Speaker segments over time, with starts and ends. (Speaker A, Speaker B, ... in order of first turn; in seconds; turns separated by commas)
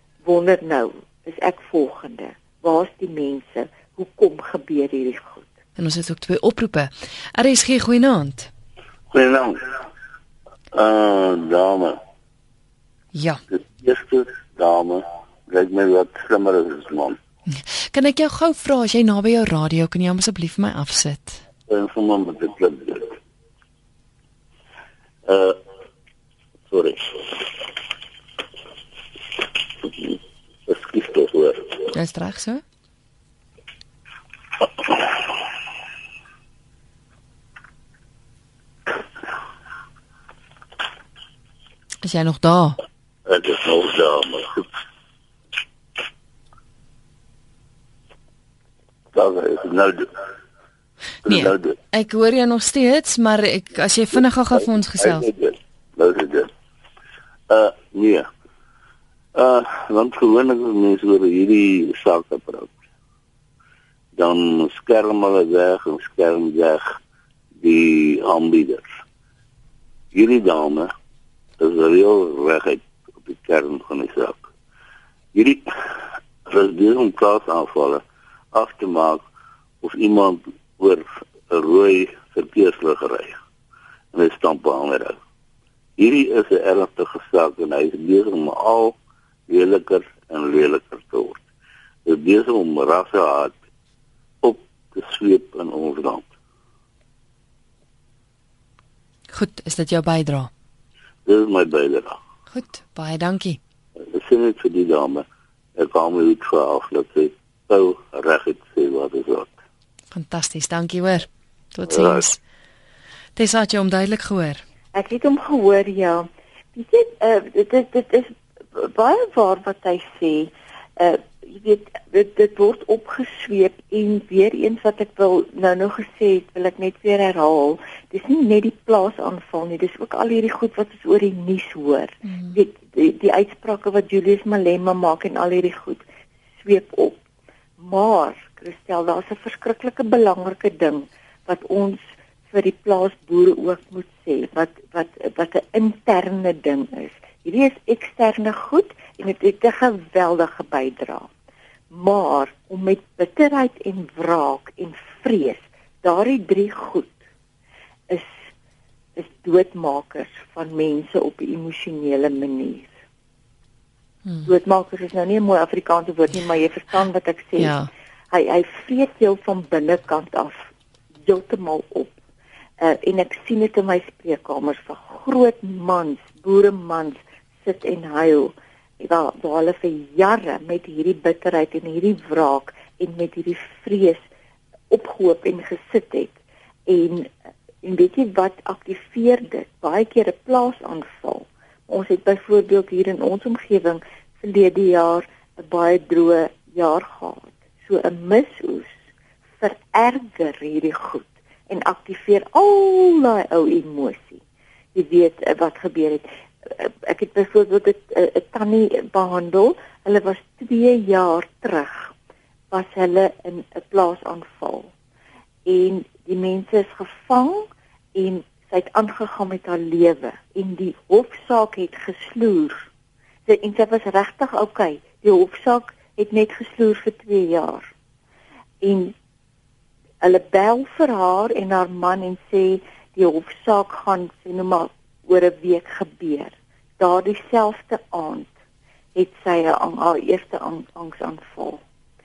Speaker A: 0.2-5.5, Speaker B: 5.8-8.5, Speaker C: 9.1-9.7, Speaker C: 10.7-12.0, Speaker B: 13.1-13.4, Speaker C: 13.5-17.2, Speaker B: 17.5-21.4, Speaker C: 21.7-23.2, Speaker C: 25.2-25.6, Speaker C: 26.7-27.4, Speaker C: 29.8-30.1, Speaker C: 30.6-31.9, Speaker B: 31.9-32.6, Speaker B: 42.0-42.8, Speaker C: 43.2-44.6, Speaker C: 49.1-50.2, Speaker C: 51.2-51.7, Speaker B: 51.2-55.3, Speaker C: 55.0-56.5, Speaker C: 57.5-58.3, Speaker C: 59.3-62.8, Speaker C: 64.2-67.0, Speaker C: 67.6-68.9, Speaker C: 70.1-70.9, Speaker C: 71.6-74.5, Speaker C: 75.3-75.6, Speaker C: 76.5-79.2, Speaker C: 79.8-83.4, Speaker C: 84.1-85.2, Speaker C: 86.0-89.0, Speaker C: 89.5-91.4, Speaker C: 92.0-93.5, Speaker C: 94.4-96.3, Speaker B: 99.3-100.5, Speaker C: 101.2-102.2, Speaker B: 102.5-103.6, Speaker C: 104.0-105.2, Speaker C: 105.8-109.5, Speaker B: 110.1-112.4, Speaker C: 111.9-112.2, Speaker B: 113.3-114.6, Speaker A: 114.9-136.0, Speaker A: 136.6-137.2, Speaker A: 137.8-151.3, Speaker A: 151.9-157.2, Speaker A: 158.1-158.4, Speaker A: 159.2-162.9, Speaker A: 164.4-167.8, Speaker B: 167.6-167.9, Speaker A: 168.3-170.6, Speaker A: 171.2-172.2, Speaker A: 172.8-184.2, Speaker A: 184.9-187.3, Speaker A: 187.8-199.0, Speaker A: 199.6-204.4, Speaker A: 204.9-212.1, Speaker A: 212.7-214.9, Speaker A: 215.7-222.9, Speaker A: 223.4-227.9, Speaker A: 228.8-229.1, Speaker A: 230.2-238.5, Speaker A: 239.1-241.8